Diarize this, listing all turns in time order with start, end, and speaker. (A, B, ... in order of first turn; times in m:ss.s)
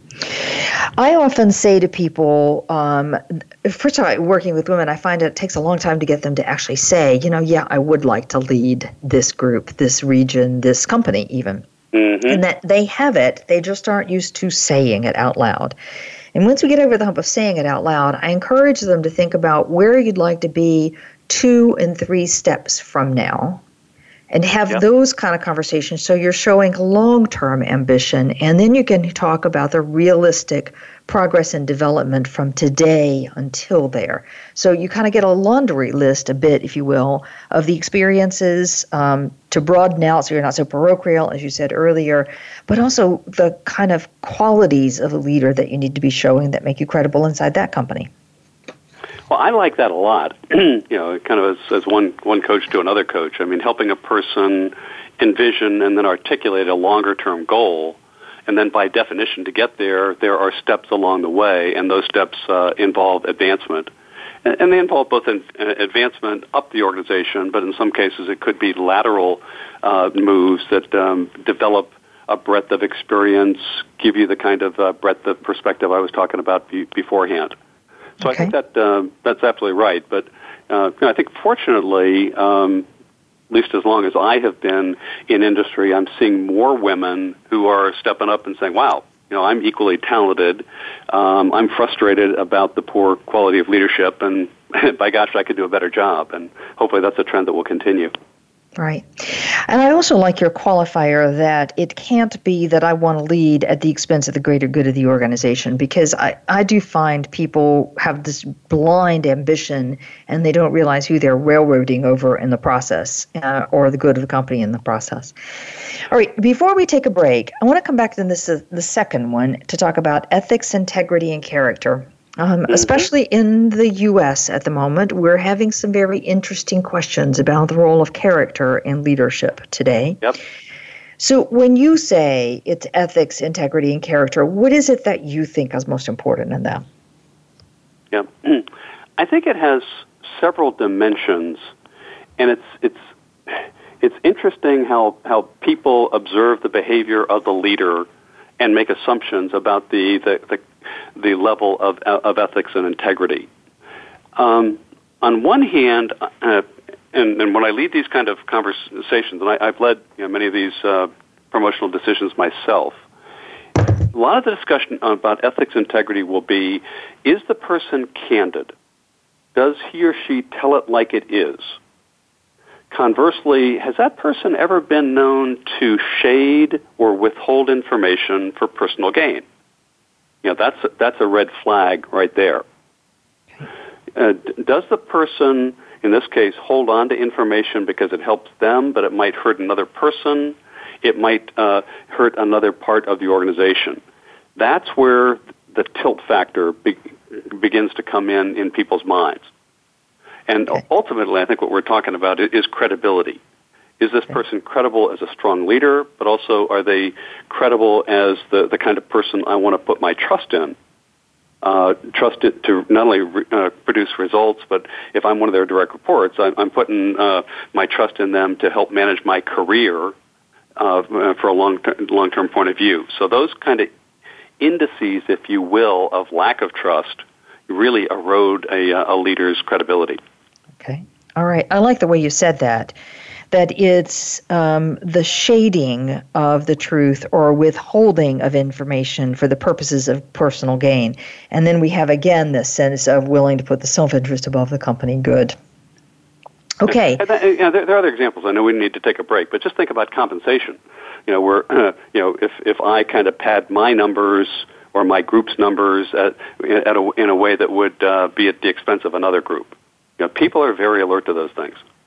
0:00.2-0:11.6 A
0:11.9-0:12.4 B
0:12.2-0:15.8 A
0:16.3-0:23.6 A
0:24.3-0:48.1 A
0:49.3-1:03.9 B
1:04.4-1:17.5 B
1:18.2-1:22.8 B
1:18.2-1:18.5 A
1:23.5-1:38.1 B
1:38.8-2:10.2 A
2:02.7-2:03.0 B
2:11.2-2:16.8 A
2:18.1-2:21.7 B
2:22.4-2:28.1 B
2:28.6-2:30.6 B
2:31.2-2:33.5 B
2:34.4-2:43.0 B
2:44.1-2:48.7 B
2:49.5-2:51.8 B
2:52.9-2:59.4 B
3:00.4-3:02.6 B
3:04.1-3:14.0 B
3:14.6-3:19.5 B
3:20.5-3:23.4 B
3:24.0-3:30.7 B
3:31.6-3:40.1 B
3:40.8-3:43.9 B
3:44.6-3:50.2 B
3:50.8-3:53.0 A
3:53.5-4:05.6 A
4:06.8-4:07.2 A
4:06.9-4:21.8 B